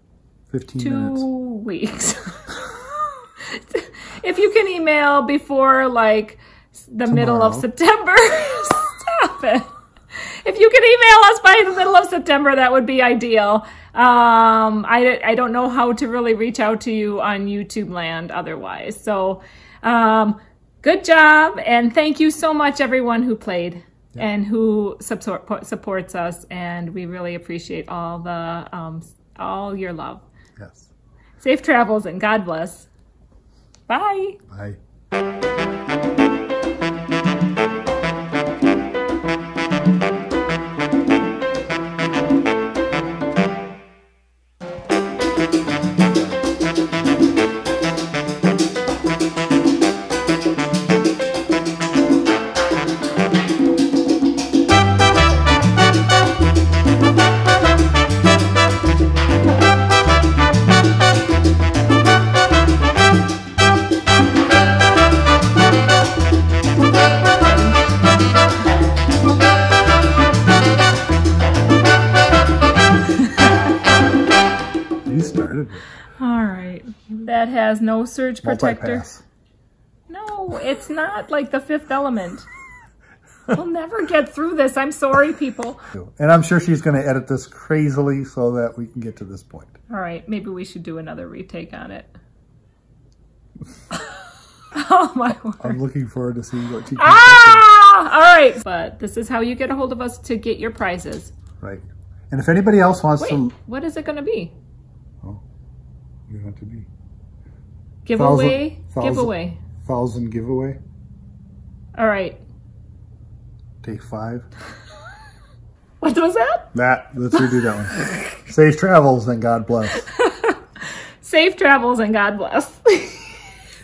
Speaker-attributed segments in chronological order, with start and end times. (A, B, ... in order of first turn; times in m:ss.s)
0:00.5-0:01.3 A
0:00.8-0:30.2 B
0:07.1-0:07.7 A
0:30.6-0:30.9 A
0:31.4-0:32.9 B
0:33.9-0:34.4 B
0:34.5-0:34.8 A
1:07.4-1:07.8 B
1:13.1-1:13.7 B
1:15.1-1:15.8 A
1:16.2-1:19.1 B
1:18.4-1:19.2 A
1:20.1-1:22.5 B
1:23.5-1:25.8 B
1:25.9-1:29.8 A
1:29.9-1:32.1 B
1:33.9-1:35.8 B
1:35.6-1:37.7 A
1:37.0-1:41.3 B
1:41.6-1:43.5 A
1:43.2-1:44.5 B
1:46.3-1:46.9 A
1:48.0-1:49.6 B
1:48.1-1:50.8 A
1:52.0-1:52.4 B
1:53.8-1:54.5 A
1:56.0-1:56.7 B
1:56.7-2:00.0 A
1:57.3-1:58.4 B
1:59.9-2:03.5 B